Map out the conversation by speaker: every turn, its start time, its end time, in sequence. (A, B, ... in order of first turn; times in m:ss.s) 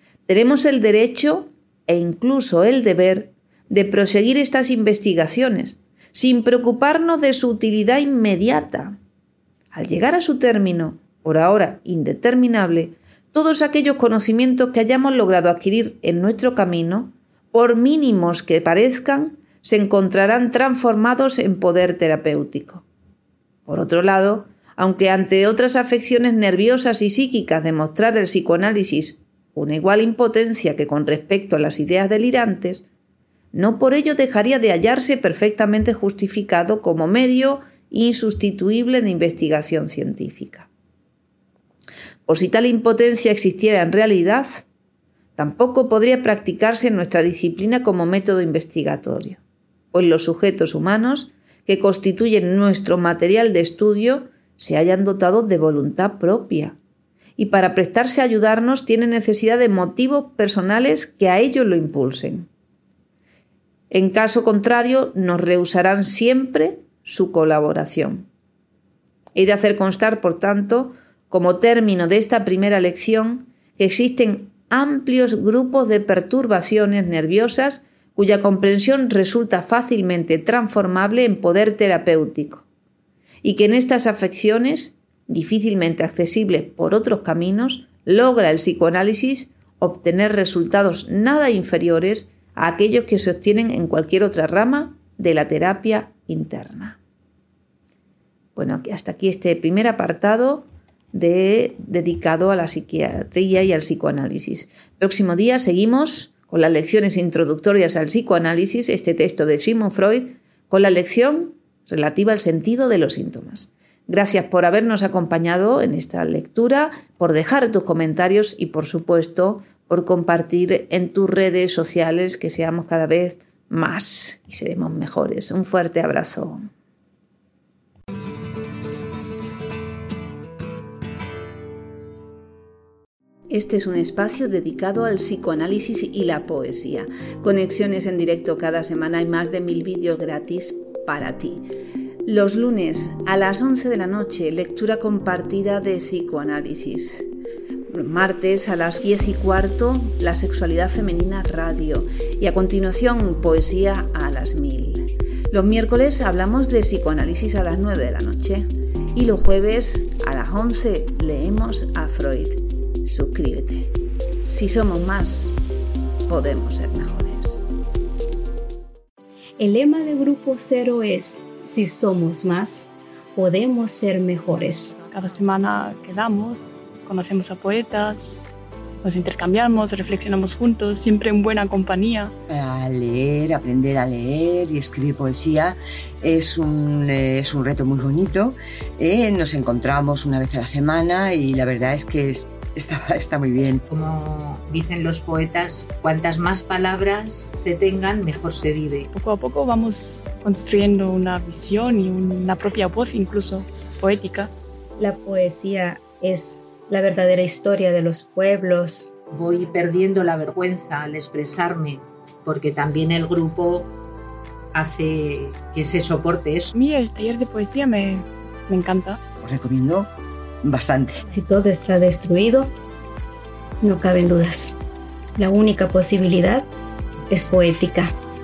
0:00.3-0:09.0 A
0:09.7-0:22.8 A
0:23.7-0:32.9 A
0:33.5-0:40.7 A
0:42.3-0:44.7 A
0:45.4-0:49.4 A
0:49.9-0:56.8 A
0:57.4-1:02.5 A
1:03.9-1:08.3 A
1:09.4-1:22.6 A
1:23.4-1:37.0 A
1:38.6-2:06.7 A
2:13.5-2:21.7 A
2:22.2-2:27.3 A
2:27.9-2:43.9 A
2:44.5-2:45.6 A
2:46.3-2:47.6 A
2:49.6-2:55.0 B
2:55.0-2:58.4 C
2:59.0-3:02.3 C
3:02.5-3:13.8 D
3:13.9-3:19.1 E
3:19.1-3:24.5 C
3:25.0-3:29.1 B
3:29.3-3:33.9 E
3:34.7-3:36.7 E
3:36.7-3:39.2 C
3:39.4-3:40.1 D
3:40.6-3:41.2 D
3:41.3-3:42.7 B
3:43.8-3:44.8 B
3:45.4-3:46.7 B
3:47.3-3:48.1 B